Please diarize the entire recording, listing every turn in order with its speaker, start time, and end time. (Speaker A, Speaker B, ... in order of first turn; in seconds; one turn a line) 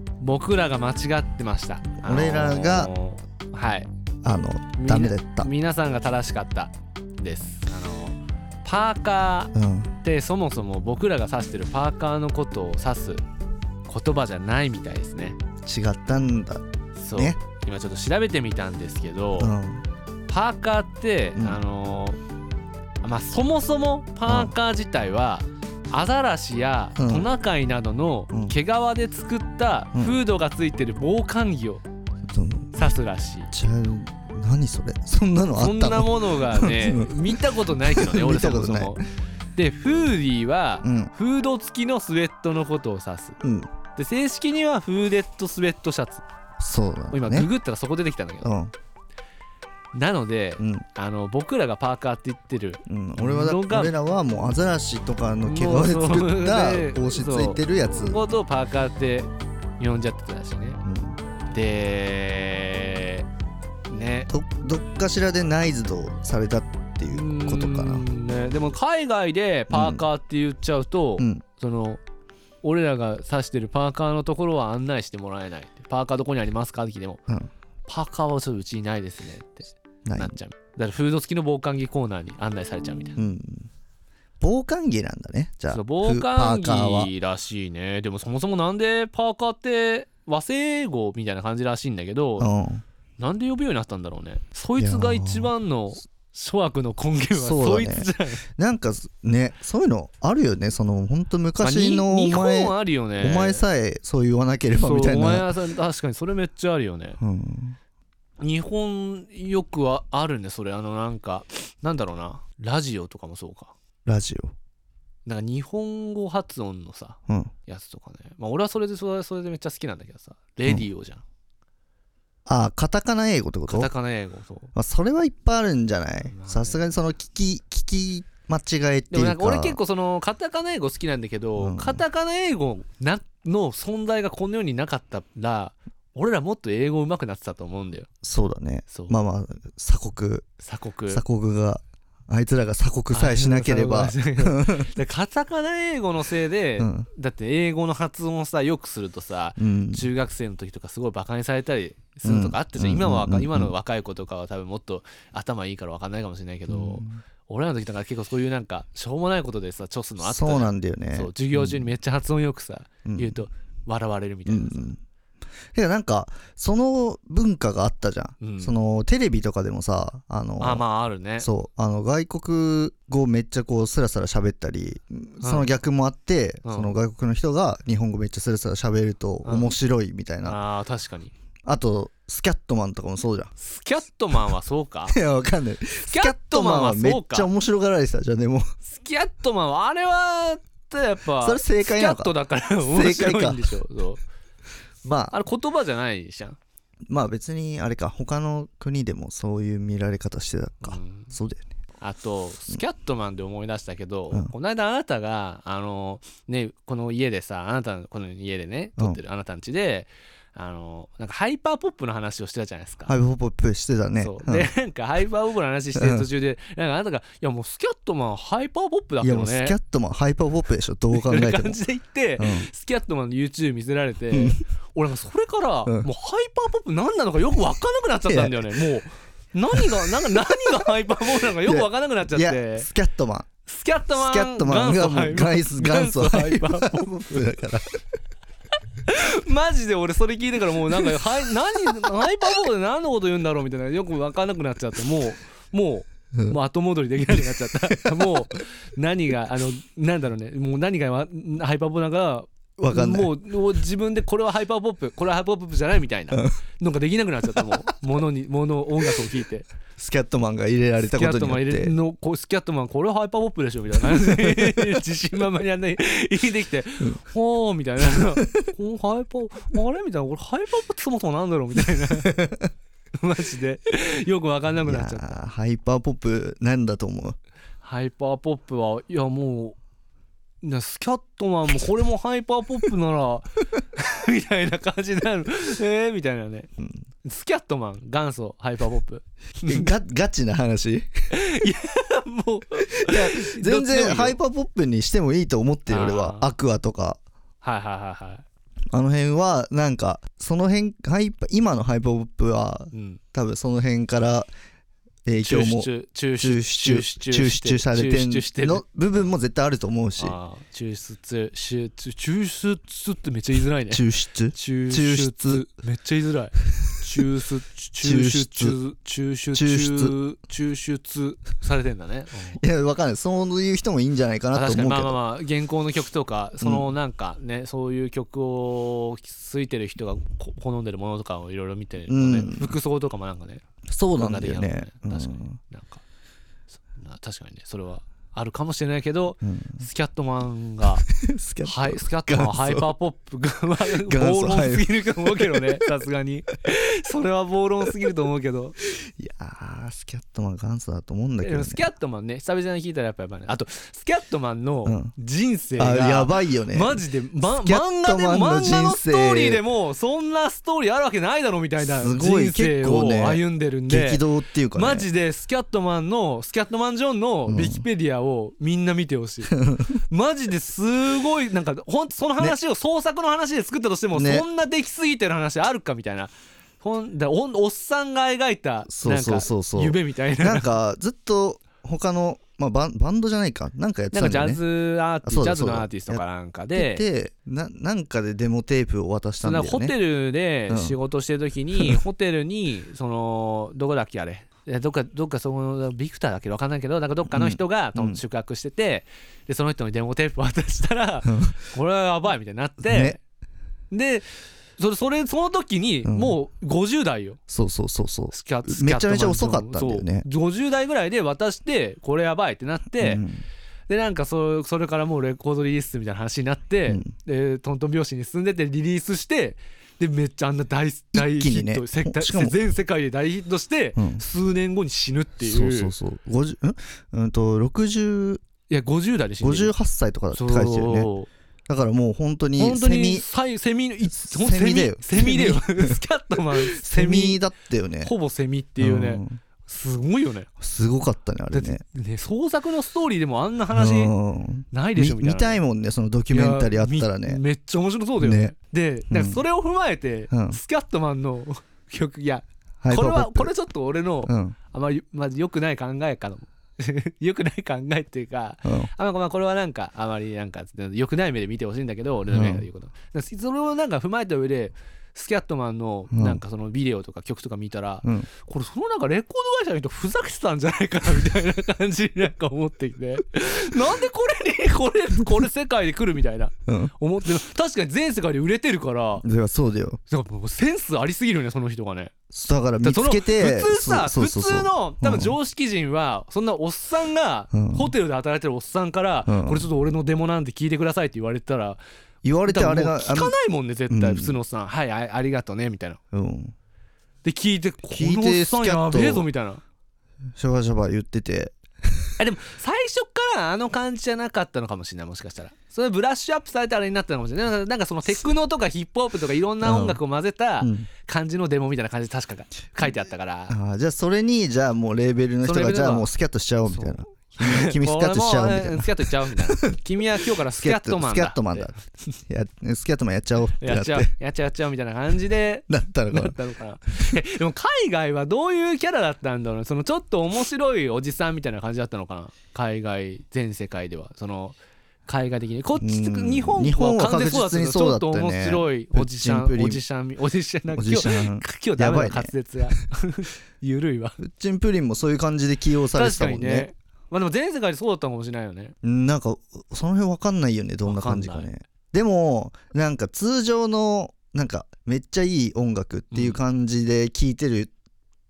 Speaker A: 0.2-3.9
Speaker B: 2.0-2.9
Speaker B: 4.2-5.5
Speaker A: 4.8-13.2
Speaker B: 9.5-9.9
Speaker A: 13.9-15.4
Speaker B: 15.6-17.4
Speaker A: 17.0-19.6
Speaker B: 19.4-19.8
Speaker A: 20.3-22.2
Speaker A: 23.0-31.8
Speaker B: 24.2-24.5
Speaker B: 27.0-27.3
Speaker B: 28.3-28.6
Speaker B: 32.2-32.7
Speaker A: 32.7-33.5
Speaker B: 33.5-39.0
Speaker A: 35.5-39.0
Speaker A: 39.5-43.4
Speaker B: 40.8-41.1
Speaker B: 43.4-43.7
Speaker A: 44.0-46.2
Speaker B: 46.6-47.5
Speaker A: 47.1-48.5
Speaker B: 48.4-48.7
Speaker A: 49.9-53.9
Speaker B: 50.6-50.8
Speaker B: 52.9-58.2
Speaker A: 55.4-60.8
Speaker B: 60.8-61.2
Speaker A: 61.5-63.2
Speaker A: 63.9-64.3
Speaker B: 64.3-68.0
Speaker A: 67.1-72.0
Speaker B: 69.7-70.0
Speaker B: 71.2-71.4
Speaker A: 72.6-77.2
Speaker A: 77.9-83.2
Speaker B: 80.0-80.3
Speaker B: 83.2-83.7
Speaker B: 84.4-87.1
Speaker A: 85.7-92.5
Speaker B: 92.4-92.8
Speaker A: 93.2-98.4
Speaker B: 94.8-95.5
Speaker B: 97.3-105.5
Speaker A: 101.6-103.6
Speaker A: 104.7-107.2
Speaker B: 107.2-107.8
Speaker A: 108.4-113.7
Speaker B: 114.0-114.5
Speaker A: 115.2-121.2
Speaker B: 122.5-123.9
Speaker A: 123.7-124.7
Speaker B: 124.7-129.8
Speaker A: 126.2-126.9
Speaker A: 129.1-138.1
Speaker B: 131.6-132.0
Speaker B: 138.2-140.5
Speaker A: 138.9-139.2
Speaker A: 140.6-141.2
Speaker B: 141.1-144.9
Speaker A: 143.1-164.9
Speaker B: 146.8-147.1
Speaker B: 149.6-150.1
Speaker B: 152.2-153.7
Speaker B: 156.7-157.2
Speaker B: 160.2-161.9
Speaker B: 163.0-163.4
Speaker B: 164.4-165.0
Speaker B: 165.7-170.8
Speaker A: 168.4-168.7
Speaker A: 170.6-171.5
Speaker B: 171.4-180.6
Speaker A: 175.4-175.7
Speaker A: 176.6-176.9
Speaker A: 179.4-179.7
Speaker A: 180.4-181.3
Speaker B: 181.7-183.5
Speaker A: 183.6-185.2
Speaker B: 185.1-188.7
Speaker A: 186.0-187.5
Speaker A: 188.8-194.2
Speaker B: 191.4-192.3
Speaker B: 192.9-193.7
Speaker B: 195.0-195.3
Speaker A: 195.3-196.6
Speaker B: 197.1-201.7
Speaker A: 200.8-201.3
Speaker A: 202.0-213.1
Speaker B: 213.1-214.7
Speaker A: 214.2-219.8
Speaker B: 215.9-216.3
Speaker B: 219.2-221.8
Speaker A: 221.1-232.9
Speaker B: 222.4-222.7
Speaker B: 224.3-224.6
Speaker B: 228.2-228.8
Speaker B: 229.7-230.0
Speaker B: 231.6-233.5
Speaker A: 233.7-237.5
Speaker B: 234.1-237.9
Speaker A: 239.0-259.7
Speaker B: 247.2-247.6
Speaker B: 252.8-253.3
Speaker B: 260.0-261.9
Speaker A: 261.1-272.5
Speaker A: 273.2-275.4
Speaker B: 274.8-277.4
Speaker A: 277.8-279.8
Speaker A: 280.6-286.7
Speaker A: 287.2-289.9
Speaker B: 289.7-291.1
Speaker A: 291.3-294.4
Speaker B: 293.0-297.2
Speaker A: 295.9-296.5
Speaker A: 297.6-298.4
Speaker B: 298.9-304.5
Speaker A: 302.9-303.2
Speaker B: 305.2-310.3
Speaker A: 305.4-309.3
Speaker A: 310.2-322.6
Speaker B: 313.9-315.6
Speaker B: 318.0-318.8
Speaker B: 319.5-320.1
Speaker B: 322.5-325.2
Speaker A: 324.5-333.6
Speaker B: 326.6-326.9
Speaker B: 332.1-332.8
Speaker B: 333.9-335.6
Speaker A: 334.1-336.0
Speaker A: 336.8-341.1
Speaker B: 339.4-339.8
Speaker B: 341.1-342.9
Speaker A: 341.6-348.8
Speaker B: 344.0-345.8
Speaker B: 349.0-351.8
Speaker A: 351.4-380.7
Speaker B: 354.8-355.1
Speaker B: 355.8-359.6
Speaker B: 361.9-365.1
Speaker B: 367.4-367.9
Speaker B: 369.5-369.8
Speaker B: 374.1-374.4
Speaker B: 378.9-384.6
Speaker A: 384.1-387.0
Speaker B: 385.2-386.2
Speaker B: 386.7-389.9
Speaker A: 389.4-403.2
Speaker B: 390.7-391.0
Speaker B: 397.3-398.2
Speaker B: 401.2-401.5
Speaker B: 402.8-403.2
Speaker A: 403.9-407.4
Speaker B: 406.0-406.4
Speaker B: 407.5-410.3
Speaker A: 408.3-413.2
Speaker B: 413.0-413.4
Speaker A: 413.9-425.9
Speaker B: 421.1-422.6
Speaker B: 423.9-424.2
Speaker B: 425.4-428.4
Speaker A: 428.7-429.7
Speaker B: 429.4-431.1
Speaker A: 430.3-431.3
Speaker B: 431.7-433.2
Speaker A: 432.6-437.4
Speaker B: 434.1-435.9
Speaker B: 436.7-438.1
Speaker A: 438.0-440.5
Speaker B: 438.8-439.4
Speaker B: 440.6-441.8
Speaker A: 441.5-444.1
Speaker B: 443.7-447.4
Speaker A: 444.7-445.6
Speaker A: 446.3-479.2
Speaker B: 448.2-448.5
Speaker B: 449.1-449.4
Speaker B: 450.3-450.6
Speaker B: 452.8-453.5
Speaker B: 454.2-454.6
Speaker B: 458.6-458.9
Speaker B: 462.3-462.6
Speaker B: 466.1-466.4
Speaker B: 476.7-476.9
Speaker B: 479.2-480.0
Speaker A: 480.1-482.1
Speaker B: 482.3-485.4
Speaker A: 482.8-491.8
Speaker B: 487.5-487.9
Speaker B: 489.2-489.7
Speaker B: 492.2-493.3
Speaker A: 492.4-496.0
Speaker B: 493.9-494.4
Speaker B: 496.1-496.5
Speaker A: 497.2-499.6
Speaker B: 497.9-499.3
Speaker B: 500.4-501.5
Speaker A: 502.2-513.5
Speaker B: 509.6-510.0
Speaker B: 510.6-510.9
Speaker B: 513.5-524.1
Speaker A: 515.4-516.1
Speaker A: 516.6-521.8
Speaker A: 523.6-544.2
Speaker B: 525.7-526.3
Speaker B: 535.8-539.8
Speaker B: 540.7-542.3
Speaker B: 544.2-546.7
Speaker A: 545.9-548.7
Speaker B: 548.8-557.7
Speaker A: 550.8-551.5
Speaker A: 556.1-556.4